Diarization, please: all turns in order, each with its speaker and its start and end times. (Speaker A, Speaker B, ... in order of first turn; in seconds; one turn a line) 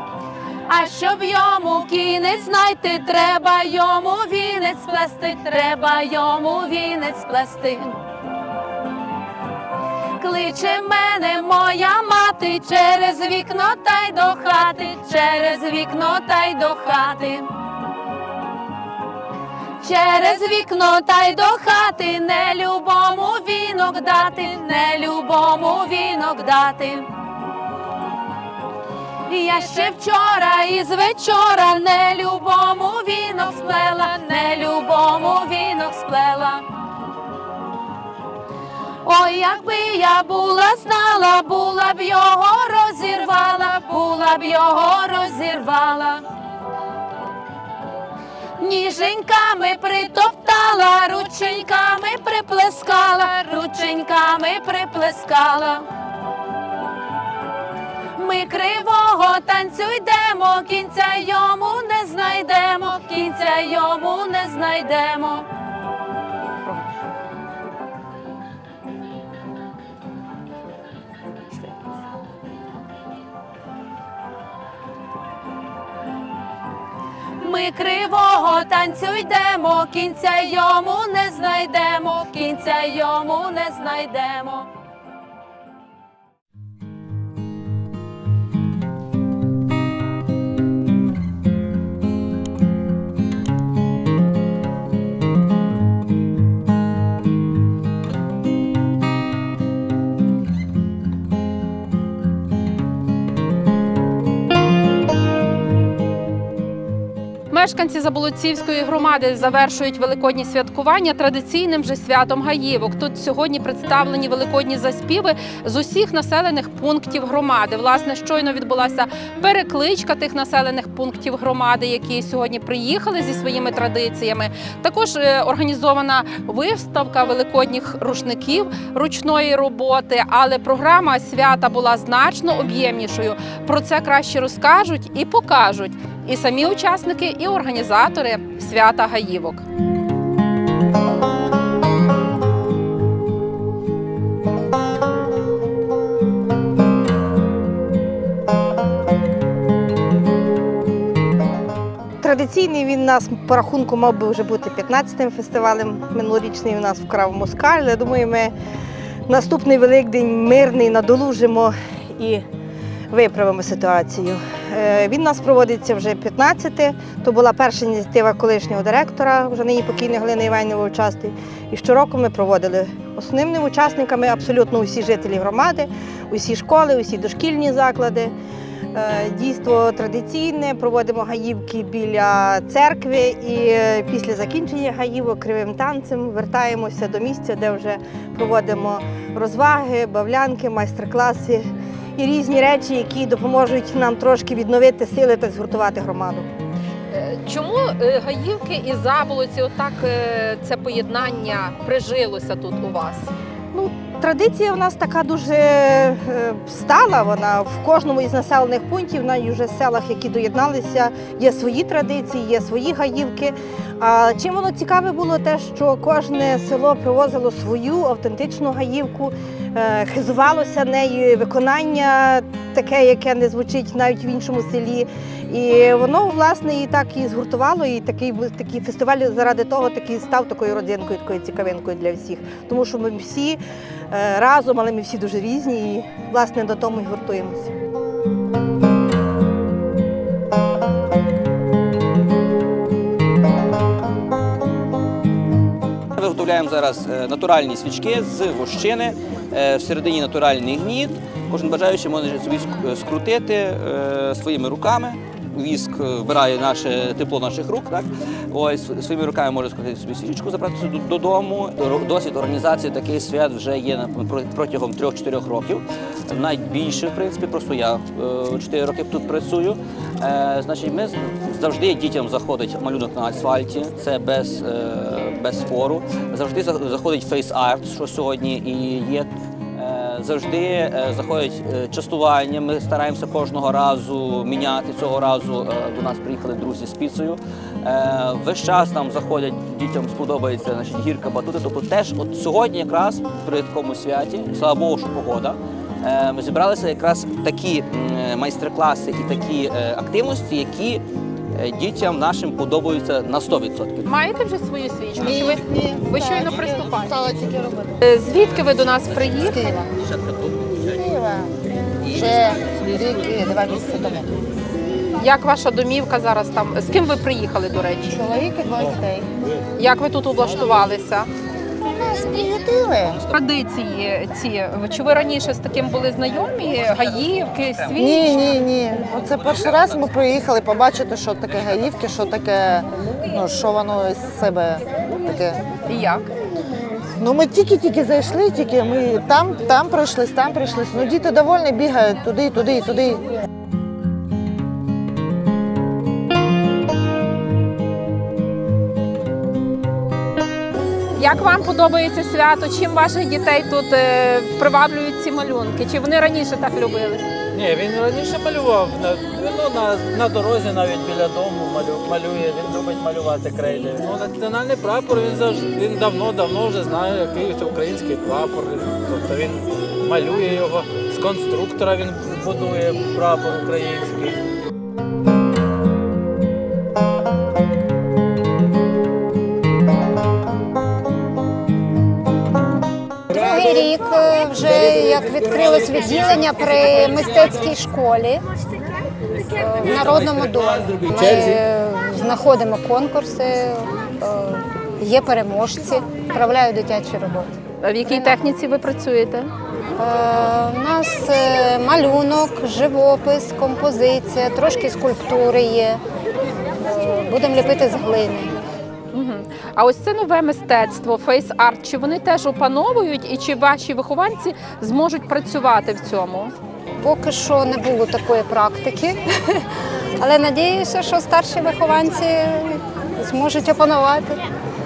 Speaker A: 0.7-8.0
Speaker A: 10.2-17.5
Speaker A: 19.8-27.1
Speaker A: 29.3-36.6
Speaker A: 39.0-46.2
Speaker A: 48.6-55.9
Speaker A: 58.2-65.5
Speaker A: 77.4-84.7
Speaker B: 107.5-139.6
Speaker C: 152.2-158.5
Speaker C: 159.3-162.4
Speaker C: 163.1-178.3
Speaker C: 178.9-196.5
Speaker B: 197.1-203.3
Speaker C: 203.7-233.6
Speaker C: 234.1-237.7
Speaker D: 246.2-301.0
Speaker D: 301.6-304.1
Speaker B: 304.1-307.2
Speaker E: 305.2-308.0
Speaker B: 308.0-309.7
Speaker E: 309.4-309.9
Speaker E: 310.9-311.5
Speaker E: 312.1-314.4
Speaker B: 315.2-318.2
Speaker E: 318.1-319.3
Speaker B: 319.8-321.3
Speaker E: 321.8-323.2
Speaker B: 323.3-328.7
Speaker E: 327.9-335.6
Speaker B: 335.9-336.3
Speaker E: 337.2-343.3
Speaker B: 351.1-357.3
Speaker F: 357.5-374.4
Speaker G: 383.4-388.4
Speaker G: 389.5-397.5
Speaker B: 397.8-399.5
Speaker G: 400.0-406.0
Speaker G: 406.8-408.6
Speaker B: 409.1-416.5
Speaker G: 417.0-419.7
Speaker G: 420.2-424.4